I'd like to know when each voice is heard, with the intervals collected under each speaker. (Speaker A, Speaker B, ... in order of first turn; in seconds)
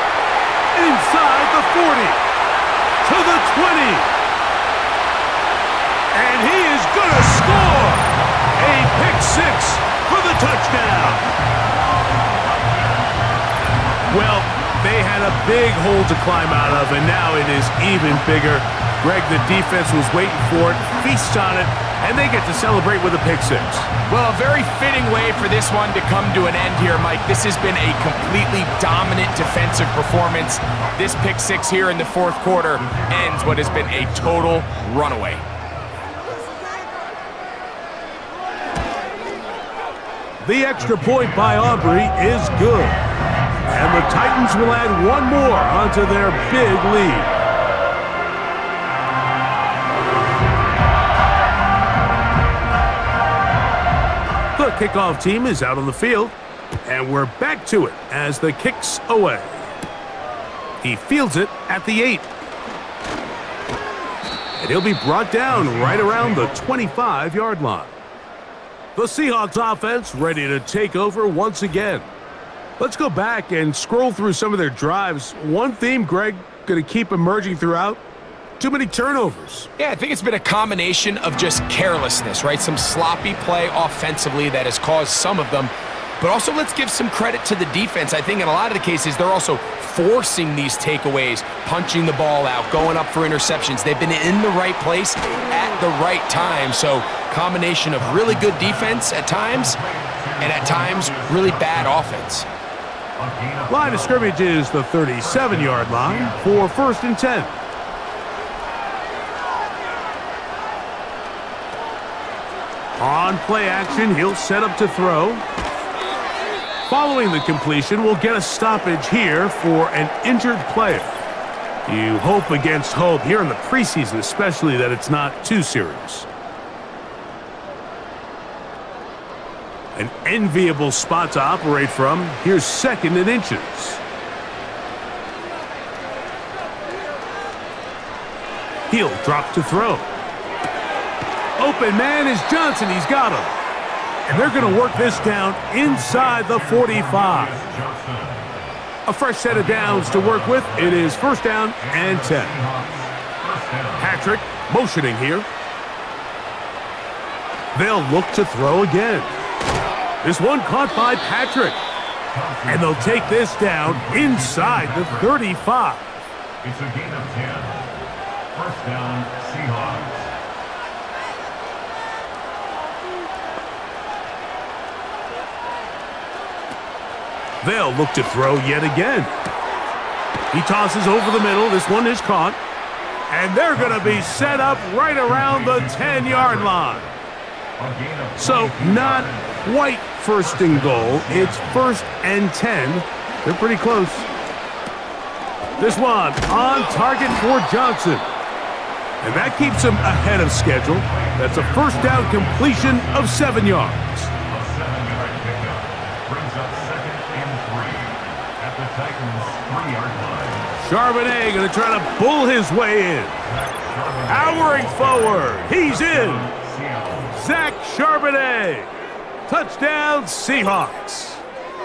Speaker A: 0.7-2.2, 3.0-4.1, 6.1-11.3, 14.1-23.9, 40.4-43.0, 43.7-47.3, 54.5-56.3, 56.9-59.6, 60.8-62.3, 64.6-67.9, 69.0-72.1, 72.8-78.0, 78.6-79.7, 103.7-107.5, 113.0-115.4, 116.8-121.2, 121.8-126.3, 129.9-134.0, 138.9-140.1, 141.6-143.5, 144.3-147.6, 149.1-152.6, 154.0-155.5, 157.7-159.3, 160.2-161.8, 162.7-166.1, 177.6-179.3, 180.5-182.6, 183.3-187.1, 188.4-194.3, 195.8-198.3, 199.2-204.3, 210.8-213.4, 214.3-216.5, 217.3-218.9, 219.5-221.4
Speaker B: 12.7-12.9, 32.8-34.6, 40.8-41.8, 65.5-66.8, 98.1-102.2, 103.2-104.4, 105.2-106.9, 144.3-148.5, 149.5-154.5, 162.3-165.4, 166.6-167.9, 168.5-170.3, 183.7-187.1, 187.8-189.7, 190.4-192.0, 199.2-210.8, 213.4-217.4
Speaker C: 24.1-35.4, 79.8-99.8, 100.4-102.5